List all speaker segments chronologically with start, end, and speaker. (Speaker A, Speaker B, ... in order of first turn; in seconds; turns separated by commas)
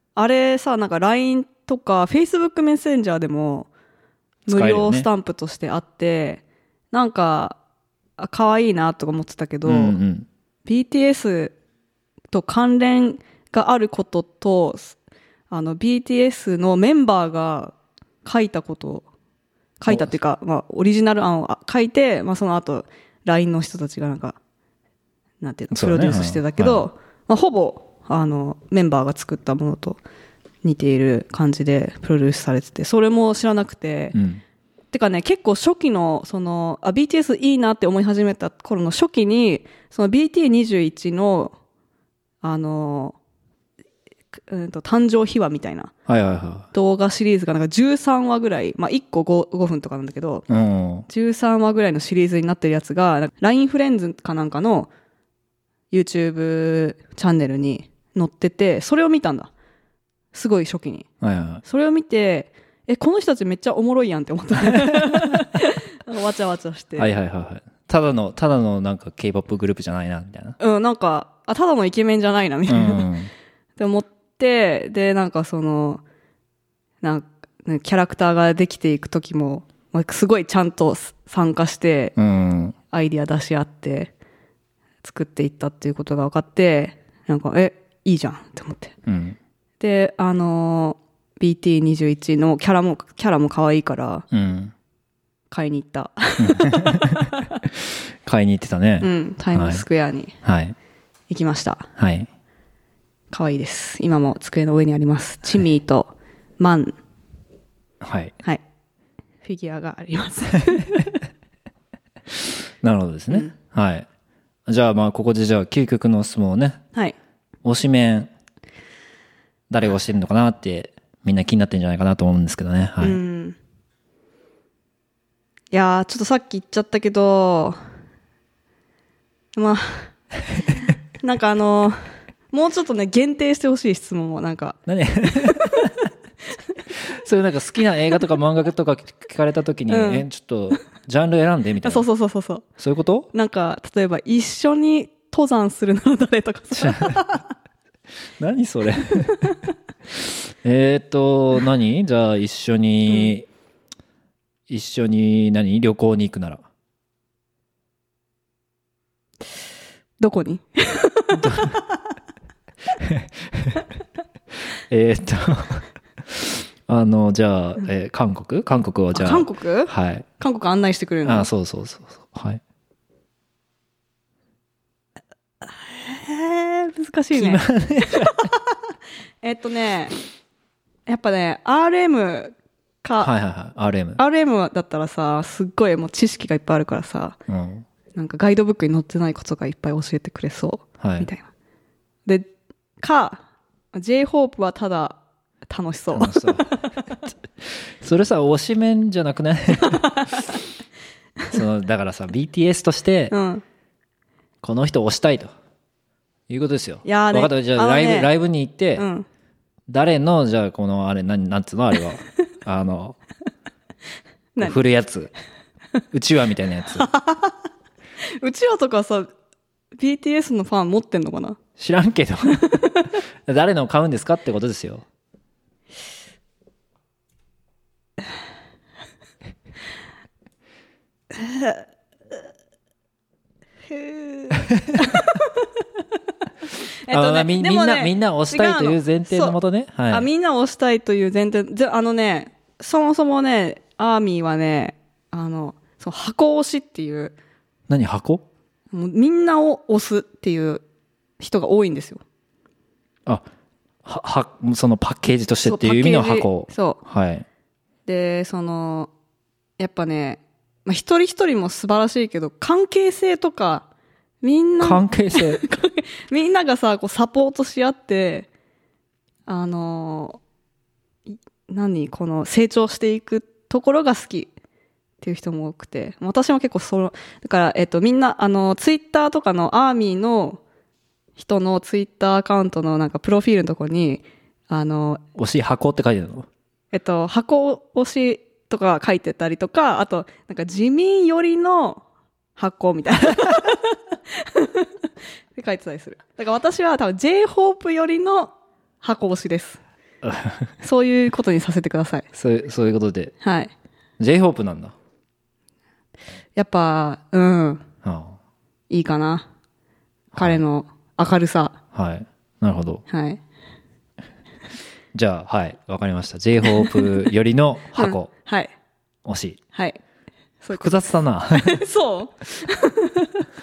Speaker A: 0.1-3.7, Speaker A: 4.5-7.6, Speaker B: 4.5-5.1, Speaker A: 8.2-10.0, Speaker B: 9.7-10.3, Speaker A: 10.7-11.5, Speaker A: 12.3-15.0, Speaker A: 15.5-17.7, Speaker A: 18.2-19.1, Speaker A: 19.8-24.4, Speaker A: 25.4-30.0, Speaker B: 25.7-26.9, Speaker A: 30.6-34.2, Speaker B: 34.1-34.4, Speaker A: 34.9-41.5, Speaker A: 42.4-43.2, Speaker A: 44.5-45.9, Speaker B: 46.1-46.7, Speaker A: 46.7-50.5, Speaker B: 50.5-51.1, Speaker A: 51.1-54.9, Speaker A: 55.9-59.5, Speaker A: 60.3-61.0, Speaker B: 61.2-61.6, Speaker A: 61.6-67.1, Speaker B: 64.7-65.4, Speaker B: 67.0-70.6, Speaker A: 70.6-73.1, Speaker B: 72.7-73.3, Speaker A: 73.8-76.0, Speaker A: 77.0-82.1, Speaker B: 82.2-82.8, Speaker A: 82.9-84.1, Speaker A: 85.0-88.9, Speaker B: 89.0-89.4, Speaker A: 89.8-94.2, Speaker B: 94.3-94.7, Speaker A: 95.5-97.6, Speaker B: 96.4-99.8, Speaker A: 99.0-100.3, Speaker B: 100.4-100.7, Speaker A: 101.3-101.9, Speaker B: 102.0-102.3, Speaker A: 103.3-107.0, Speaker B: 108.0-108.3, Speaker A: 109.4-111.0, Speaker B: 112.8-114.1, Speaker B: 114.7-116.8, Speaker B: 117.6-118.3, Speaker B: 119.7-123.2, Speaker A: 123.0-123.6, Speaker A: 125.7-127.8, Speaker A: 129.5-130.1, Speaker A: 131.2-132.0, Speaker A: 132.5-135.9, Speaker B: 134.9-135.9, Speaker B: 136.9-142.1, Speaker A: 139.9-140.2, Speaker A: 141.8-142.6, Speaker B: 142.8-143.3, Speaker A: 143.3-147.4, Speaker B: 146.8-147.2, Speaker B: 148.4-149.5, Speaker B: 150.1-153.4, Speaker B: 154.7-156.6, Speaker A: 160.2-161.9, Speaker B: 161.3-161.8, Speaker B: 163.0-163.8, Speaker B: 164.9-170.2, Speaker A: 169.1-171.5, Speaker B: 171.2-172.6, Speaker A: 175.6-178.5, Speaker B: 177.3-178.5, Speaker A: 179.4-180.1, Speaker A: 181.1-183.3, Speaker B: 183.2-184.2, Speaker A: 184.2-187.4, Speaker B: 187.5-187.8, Speaker A: 188.1-191.4, Speaker B: 191.0-191.3, Speaker A: 193.0-193.4, Speaker A: 193.9-197.0, Speaker B: 196.1-196.7, Speaker B: 197.6-200.1, Speaker A: 199.8-200.4, Speaker B: 201.5-203.3, Speaker A: 203.3-203.6, Speaker B: 204.6-205.5, Speaker B: 206.5-209.0, Speaker A: 207.0-208.3, Speaker A: 209.0-209.3, Speaker B: 209.9-213.2, Speaker B: 214.6-215.3, Speaker B: 216.1-217.1, Speaker A: 216.9-217.6, Speaker A: 218.4-219.3, Speaker A: 220.0-221.6, Speaker B: 221.8-222.8, Speaker A: 222.5-223.2, Speaker B: 223.4-225.0, Speaker A: 231.3-231.8, Speaker A: 233.9-235.7, Speaker A: 237.0-239.6, Speaker B: 237.1-240.3, Speaker A: 240.1-247.3, Speaker B: 247.9-248.4, Speaker A: 248.9-250.8, Speaker A: 251.4-252.2, Speaker B: 254.0-257.4, Speaker A: 255.6-257.0, Speaker A: 258.1-259.1, Speaker A: 259.8-263.9, Speaker A: 264.4-268.5, Speaker B: 264.8-265.6, Speaker A: 269.5-270.4, Speaker A: 271.7-274.5, Speaker A: 275.2-280.6, Speaker A: 281.4-285.2, Speaker B: 285.4-286.5, Speaker A: 286.9-292.0, Speaker A: 292.6-299.8, Speaker B: 300.2-300.7, Speaker A: 300.8-302.2, Speaker B: 302.3-303.3, Speaker A: 303.4-303.7, Speaker B: 304.2-304.9, Speaker A: 306.6-307.8, Speaker B: 308.0-308.4, Speaker A: 308.9-309.4, Speaker B: 310.3-310.6, Speaker A: 310.3-311.8, Speaker B: 311.9-313.0, Speaker A: 313.1-313.4, Speaker B: 315.1-318.3, Speaker A: 316.7-317.1, Speaker A: 317.9-318.7, Speaker B: 319.2-319.6, Speaker A: 320.6-323.4, Speaker B: 320.7-321.8